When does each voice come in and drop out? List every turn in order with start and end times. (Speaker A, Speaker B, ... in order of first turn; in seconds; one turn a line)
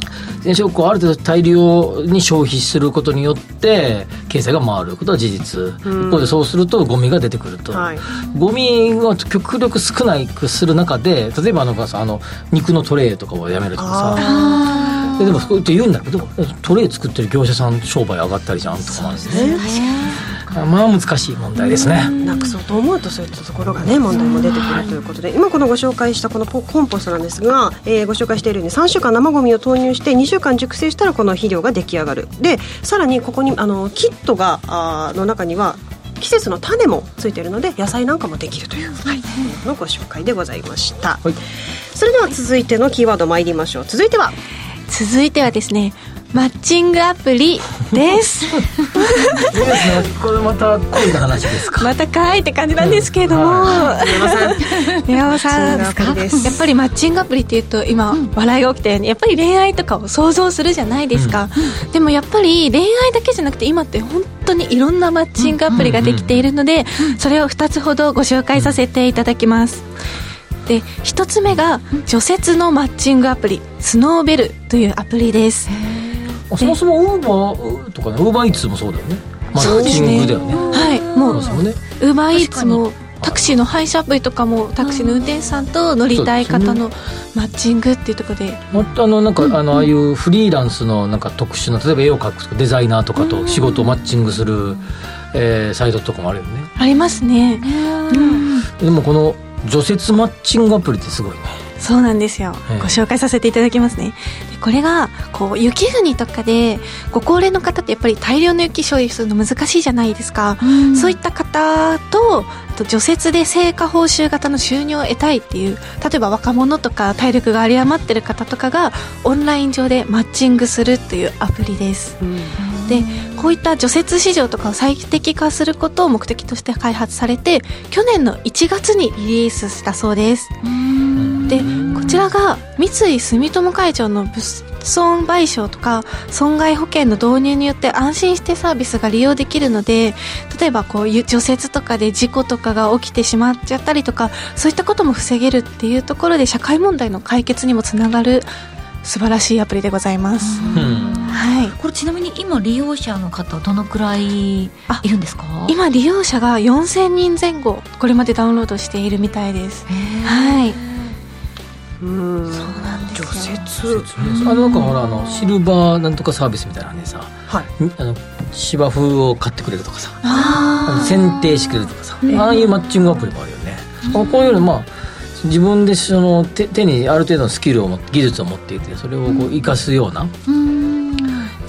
Speaker A: 0.4-14.2
Speaker B: 5.8-6.3
Speaker B: 7.7-8.0
Speaker C: 8.1-8.4
Speaker B: 13.8-14.7
Speaker D: 14.2-14.8
Speaker C: 14.2-15.5
Speaker A: 15.2-19.6
Speaker C: 18.9-20.6
Speaker B: 19.2-19.7
Speaker A: 20.5-22.1
Speaker D: 22.0-22.4
Speaker B: 22.2-41.2
Speaker C: 24.2-24.8
Speaker B: 41.9-44.4
Speaker D: 44.9-49.6
Speaker A: 49.4-51.9
Speaker D: 51.8-69.9
Speaker A: 52.8-53.9
Speaker B: 53.9-54.8
Speaker B: 55.3-56.6
Speaker C: 55.6-56.6
Speaker A: 61.1-61.4
Speaker C: 65.4-65.9
Speaker A: 65.7-66.5
Speaker D: 70.7-75.7
Speaker C: 75.7-76.4
Speaker A: 76.5-81.8
Speaker D: 79.5-88.6
Speaker C: 79.6-81.6
Speaker C: 82.3-82.8
Speaker C: 84.8-85.5
Speaker A: 86.1-86.8
Speaker A: 88.7-94.8
Speaker A: 95.3-96.7
Speaker D: 96.8-98.5
Speaker C: 97.6-98.7
Speaker A: 98.7-101.6
Speaker D: 101.8-122.2
Speaker A: 102.7-103.0
Speaker C: 110.6-111.2
Speaker B: 122.2-122.5
Speaker C: 122.6-123.3
Speaker D: 122.9-130.6
Speaker C: 130.6-132.2
Speaker A: 131.2-131.4
Speaker D: 131.5-148.5
Speaker B: 131.6-132.0
Speaker D: 149.0-151.8
Speaker C: 150.4-155.8
Speaker A: 150.7-151.2
Speaker D: 155.7-160.8
Speaker C: 159.9-161.1
Speaker B: 162.0-164.5
Speaker D: 162.5-163.6
Speaker A: 163.9-180.3
Speaker C: 164.3-164.9
Speaker D: 170.2-171.2
Speaker B: 170.3-170.8
Speaker C: 170.3-170.8
Speaker C: 174.1-174.6
Speaker C: 180.5-181.5